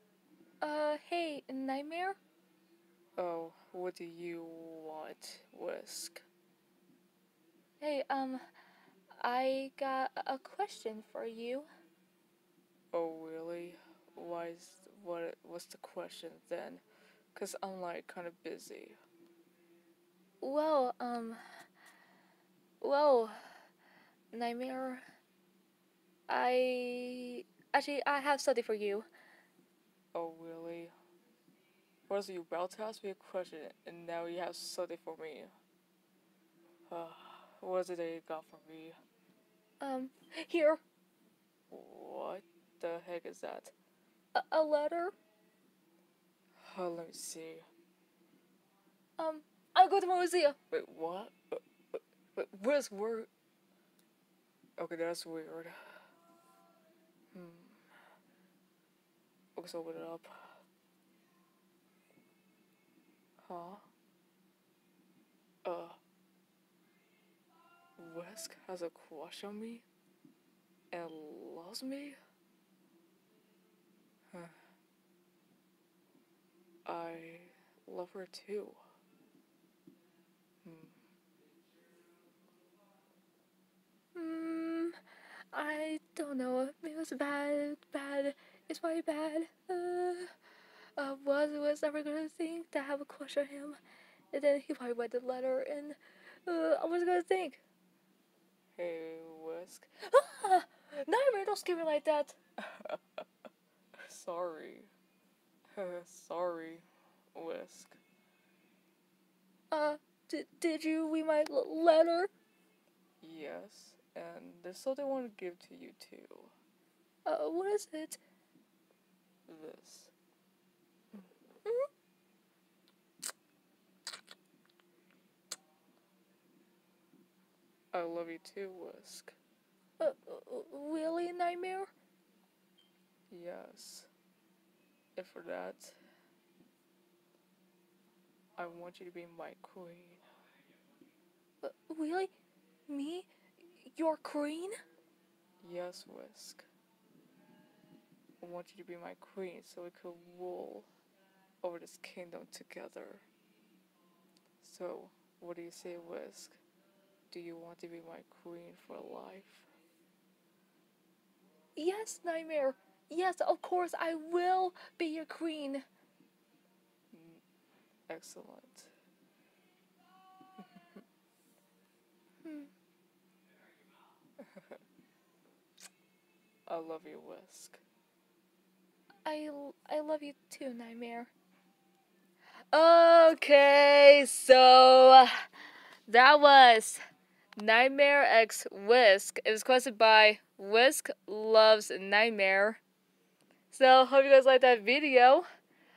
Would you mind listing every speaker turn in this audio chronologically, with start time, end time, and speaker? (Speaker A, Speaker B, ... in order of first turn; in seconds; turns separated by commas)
Speaker A: 0.6-2.2, Speaker B: 3.2-6.2, Speaker A: 7.8-8.4, Speaker A: 9.2-11.7, Speaker B: 12.9-16.8, Speaker B: 17.3-19.0, Speaker A: 20.4-21.4, Speaker A: 22.8-23.5, Speaker A: 24.3-25.0, Speaker A: 26.3-29.1, Speaker B: 30.1-30.9, Speaker B: 32.1-35.5, Speaker B: 36.9-39.0, Speaker A: 39.8-40.8, Speaker B: 41.7-43.7, Speaker A: 44.3-45.1, Speaker B: 46.6-47.6, Speaker A: 49.2-50.6, Speaker B: 50.7-53.3, Speaker B: 54.8-55.8, Speaker B: 57.3-57.8, Speaker B: 59.5-60.6, Speaker B: 63.4-63.9, Speaker B: 65.6-66.0, Speaker B: 68.0-69.8, Speaker B: 70.9-72.2, Speaker B: 76.8-78.8, Speaker B: 80.6-80.9, Speaker A: 84.1-85.0, Speaker A: 85.5-90.3, Speaker A: 91.0-93.8, Speaker A: 94.3-97.6, Speaker B: 98.7-100.0, Speaker A: 100.1-102.4, Speaker B: 102.7-103.0, Speaker B: 104.0-104.9, Speaker B: 105.7-108.0, Speaker A: 109.7-112.3, Speaker B: 113.2-116.5, Speaker A: 117.2-118.2, Speaker B: 119.5-120.1, Speaker B: 127.9-129.4, Speaker A: 130.0-131.9, Speaker B: 133.3-134.1, Speaker B: 135.2-136.0, Speaker B: 138.6-140.2, Speaker A: 141.6-142.3, Speaker A: 142.9-144.8, Speaker B: 145.6-146.7, Speaker B: 148.4-150.9, Speaker B: 151.6-153.2, Speaker B: 154.6-156.6, Speaker B: 157.3-159.7, Speaker A: 161.8-165.8, Speaker B: 167.1-167.4, Speaker B: 168.1-168.9, Speaker A: 172.4-172.7, Speaker B: 176.7-177.8, Speaker A: 179.2-181.3, Speaker A: 182.7-185.4, Speaker A: 186.1-187.0, Speaker A: 187.6-192.8, Speaker A: 193.7-195.4